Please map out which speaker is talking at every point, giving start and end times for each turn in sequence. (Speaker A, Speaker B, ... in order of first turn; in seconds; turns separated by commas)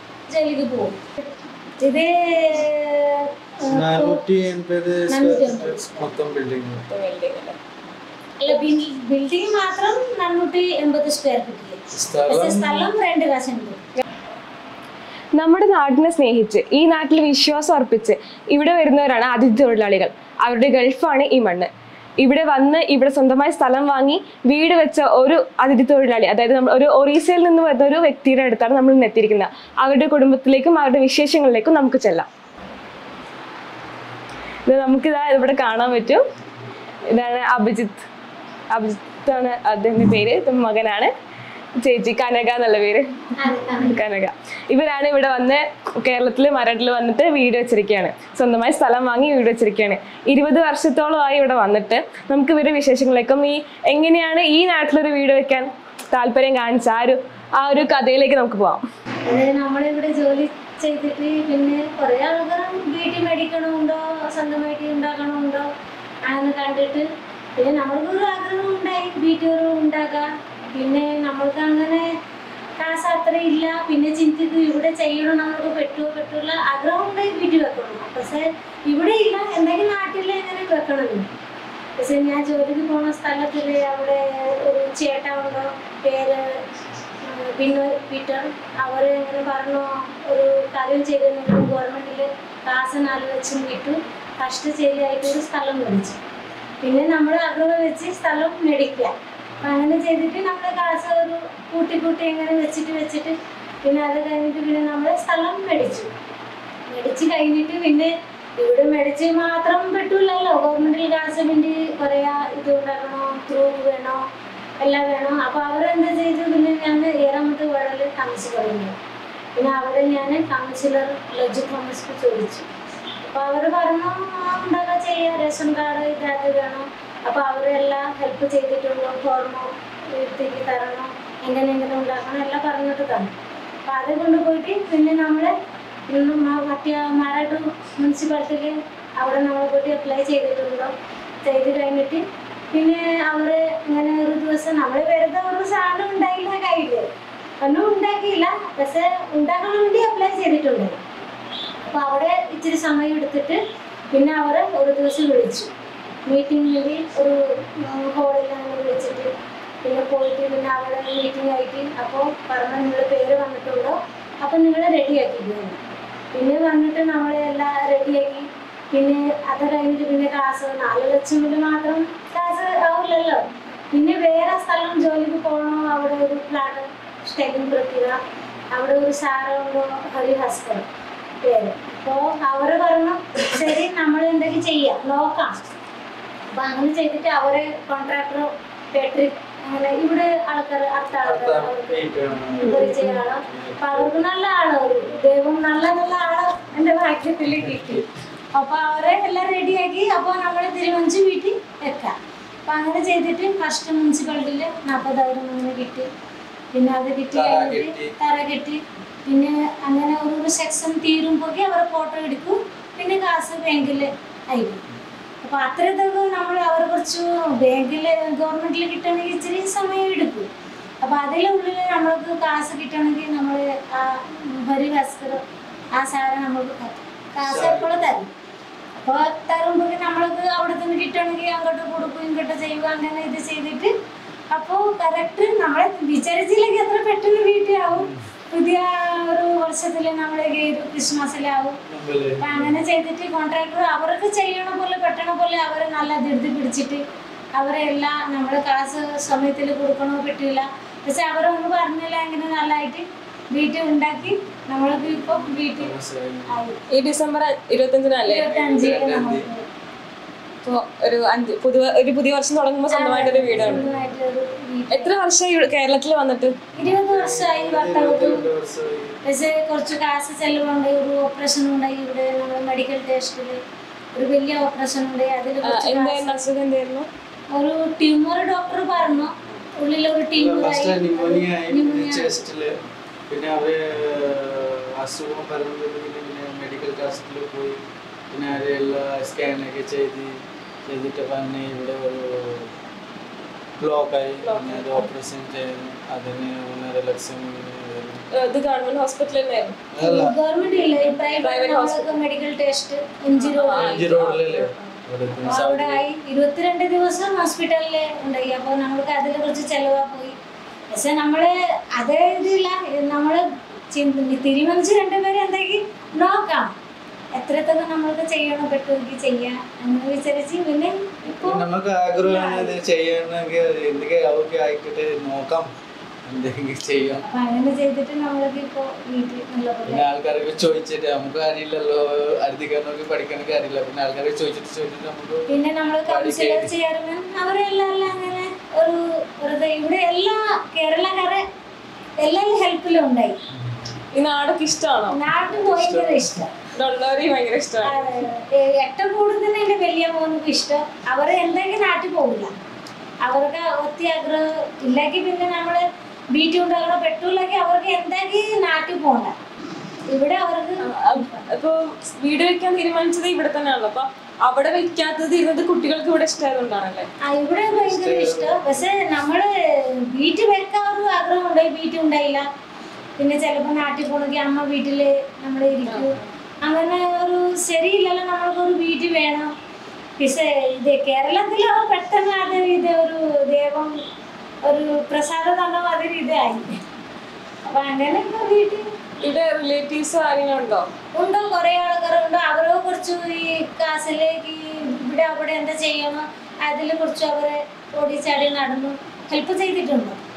Speaker A: 0.3-1.0, Speaker A: 1.8-4.2, Speaker B: 3.7-6.8, Speaker A: 5.1-6.1, Speaker C: 6.9-7.5, Speaker A: 8.4-13.8, Speaker B: 11.9-12.9, Speaker C: 15.3-32.3, Speaker C: 34.7-36.2, Speaker C: 37.1-38.0, Speaker C: 38.7-41.1, Speaker C: 41.8-43.1, Speaker A: 43.4-44.0, Speaker C: 43.8-58.8, Speaker A: 59.2-65.7, Speaker A: 66.2-72.1, Speaker A: 72.8-81.3, Speaker A: 82.0-86.6, Speaker A: 87.2-96.2, Speaker A: 96.8-106.1, Speaker A: 106.9-114.2, Speaker A: 114.8-118.9, Speaker A: 119.5-122.7, Speaker A: 123.2-133.3, Speaker A: 133.8-135.5, Speaker A: 136.1-147.1, Speaker A: 147.6-151.0, Speaker A: 151.8-155.7, Speaker A: 156.3-159.3, Speaker A: 159.8-165.8, Speaker A: 166.3-178.2, Speaker A: 178.7-180.9, Speaker A: 181.4-185.6, Speaker A: 186.5-192.0, Speaker B: 191.2-194.2, Speaker A: 192.5-202.1, Speaker B: 197.5-198.1, Speaker A: 202.7-206.1, Speaker A: 206.7-214.8, Speaker B: 207.3-208.1, Speaker A: 215.4-220.5, Speaker A: 221.0-225.4, Speaker A: 226.0-228.3, Speaker B: 227.4-228.1, Speaker A: 228.9-233.9, Speaker A: 234.5-241.8, Speaker B: 237.9-238.2, Speaker B: 241.9-242.8, Speaker A: 242.4-247.0, Speaker A: 247.5-255.9, Speaker B: 254.9-256.6, Speaker A: 256.5-256.8, Speaker C: 256.9-258.5, Speaker A: 258.2-259.6, Speaker B: 258.5-259.5, Speaker C: 260.6-263.9, Speaker A: 262.9-265.1, Speaker B: 263.4-264.1, Speaker C: 264.9-266.6, Speaker B: 266.8-269.2, Speaker A: 266.8-268.4, Speaker A: 269.2-273.6, Speaker A: 274.1-276.4, Speaker C: 275.6-277.1, Speaker A: 277.5-282.3, Speaker B: 280.3-282.8, Speaker B: 283.3-287.8, Speaker B: 288.3-292.7, Speaker B: 293.8-298.2, Speaker C: 294.4-295.1, Speaker C: 298.3-299.8, Speaker B: 299.9-300.4, Speaker A: 300.0-304.0, Speaker C: 301.0-302.2, Speaker C: 303.3-304.9, Speaker B: 303.6-306.0, Speaker A: 305.4-310.4, Speaker A: 310.9-316.7, Speaker A: 317.3-322.8, Speaker B: 321.4-325.7, Speaker B: 326.2-327.2, Speaker A: 327.2-330.0, Speaker B: 329.9-335.5, Speaker A: 335.5-341.4, Speaker B: 336.1-336.7, Speaker A: 342.2-343.4, Speaker C: 344.1-345.2, Speaker A: 345.1-346.5, Speaker B: 345.4-346.3, Speaker C: 346.8-348.1, Speaker A: 347.8-352.5, Speaker A: 353.2-359.3, Speaker A: 360.1-361.4, Speaker C: 360.8-367.1, Speaker A: 367.2-372.4, Speaker B: 367.6-369.1, Speaker A: 373.2-379.5, Speaker C: 375.9-376.2, Speaker A: 380.2-384.0, Speaker A: 384.6-386.8, Speaker A: 387.6-388.9, Speaker C: 389.2-390.9, Speaker A: 391.1-400.2